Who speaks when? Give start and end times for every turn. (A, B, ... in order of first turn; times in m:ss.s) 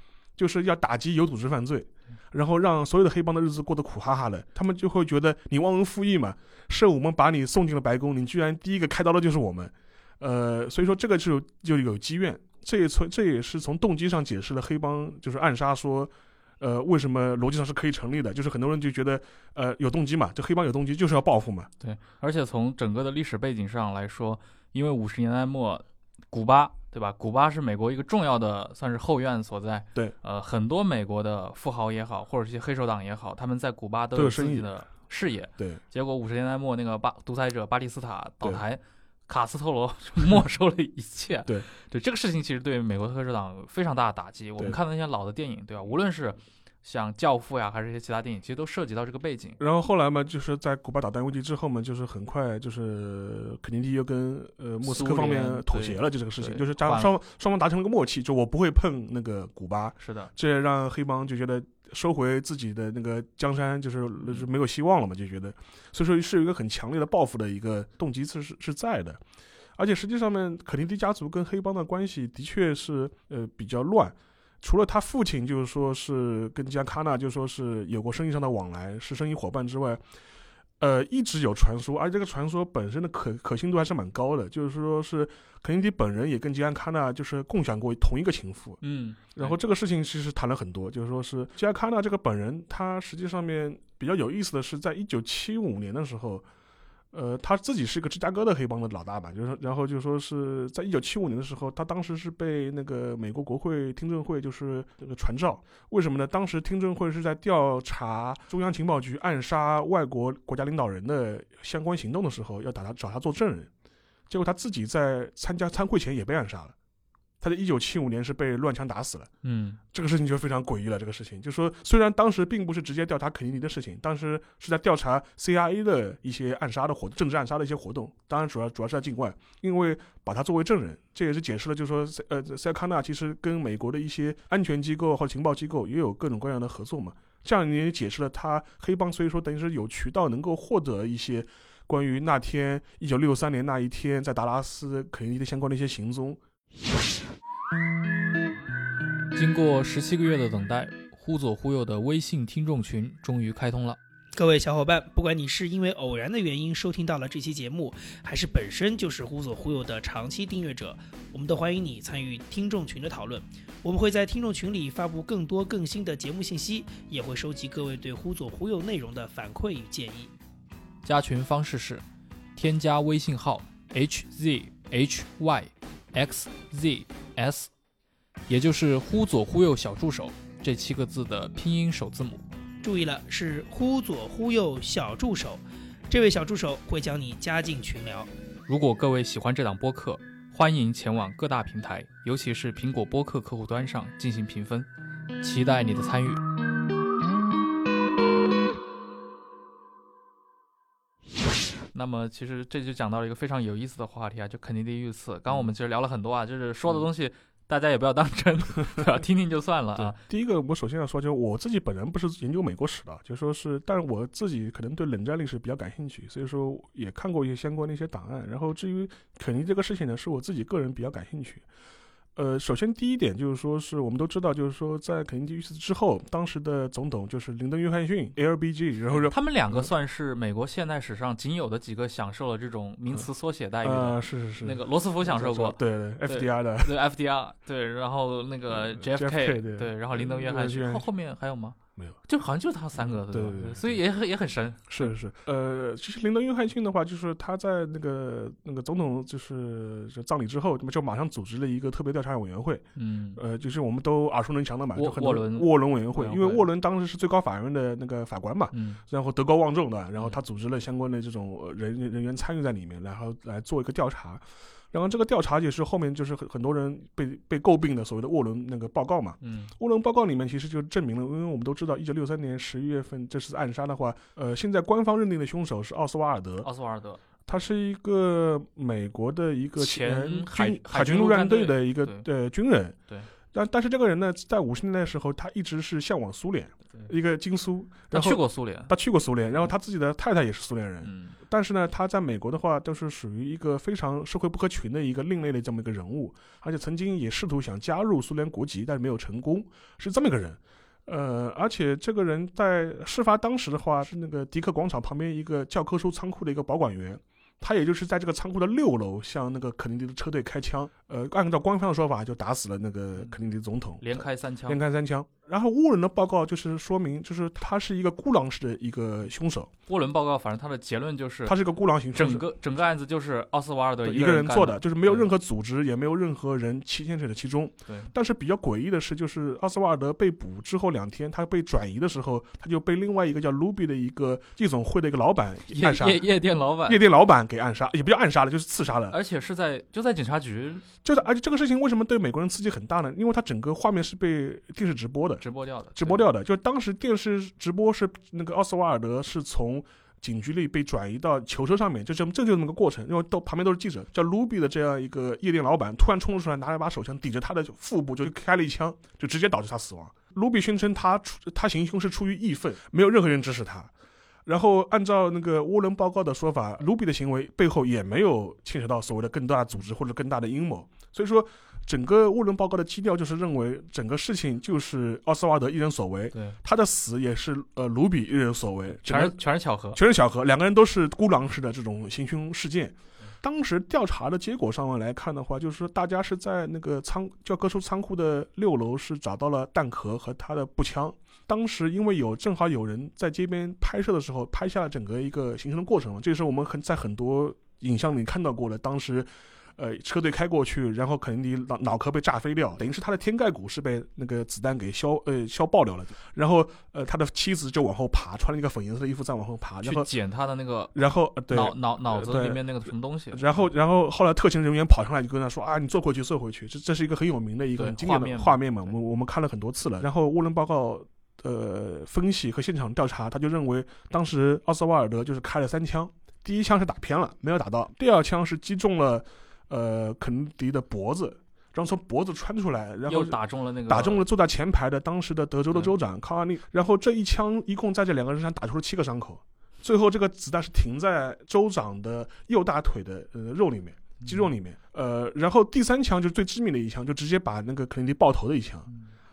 0:00.4-0:21.7 A
0:21.8-0:49.6 B
0:34.2-0:34.7 A
0:49.6-1:09.2 A
0:54.8-0:57.1 B
1:00.0-1:00.3 B
1:09.8-1:20.0 A
1:20.8-1:28.8 A
1:28.8-1:29.6 B
1:29.4-1:36.4 A
1:37.1-1:53.7 A
1:54.3-1:56.8 A
1:57.4-1:59.3 A
1:59.4-1:59.8 B
1:59.9-2:26.4 A
2:29.3-2:34.0 B
2:34.4-2:50.3 C
2:51.0-2:52.0 B
2:52.6-2:57.7 B
2:58.5-3:02.4 B
3:02.8-3:08.3 C
3:08.7-3:14.9 B
3:15.4-3:16.4 B
3:21.9-3:30.2 B
3:30.0-3:41.6 A
3:42.4-3:49.9 A
3:49.2-4:05.1 B
3:53.8-3:57.0 A
3:58.7-4:01.0 A
4:03.1-4:04.0 A
4:04.9-4:12.8 A
4:13.0-4:13.4 B
4:13.4-4:36.7 A
4:15.0-4:16.7 B
4:18.7-4:19.0 B
4:29.4-4:29.7 B
4:36.6-4:37.2 B
4:37.5-4:43.0 A
4:39.8-4:42.3 B
4:43.5-5:19.7 A
4:48.1-4:48.9 B
4:51.0-4:51.4 B
5:14.0-5:14.8 B
5:19.9-5:21.6 B
5:21.5-5:22.4 A
5:22.1-5:25.3 B
5:24.0-5:36.3 A
5:35.7-5:37.0 B
5:36.8-5:39.2 A
5:39.1-5:40.8 B
5:41.0-5:45.4 A
5:45.4-5:46.3 B
5:46.0-6:03.9 A
6:04.5-6:19.4 A
6:19.0-6:20.0 B
6:19.9-6:50.1 A
6:49.8-6:53.6 B
6:50.9-6:52.6 A
6:53.3-7:28.9 A
6:57.8-6:58.6 B
7:13.1-7:14.2 B
7:24.2-7:24.5 B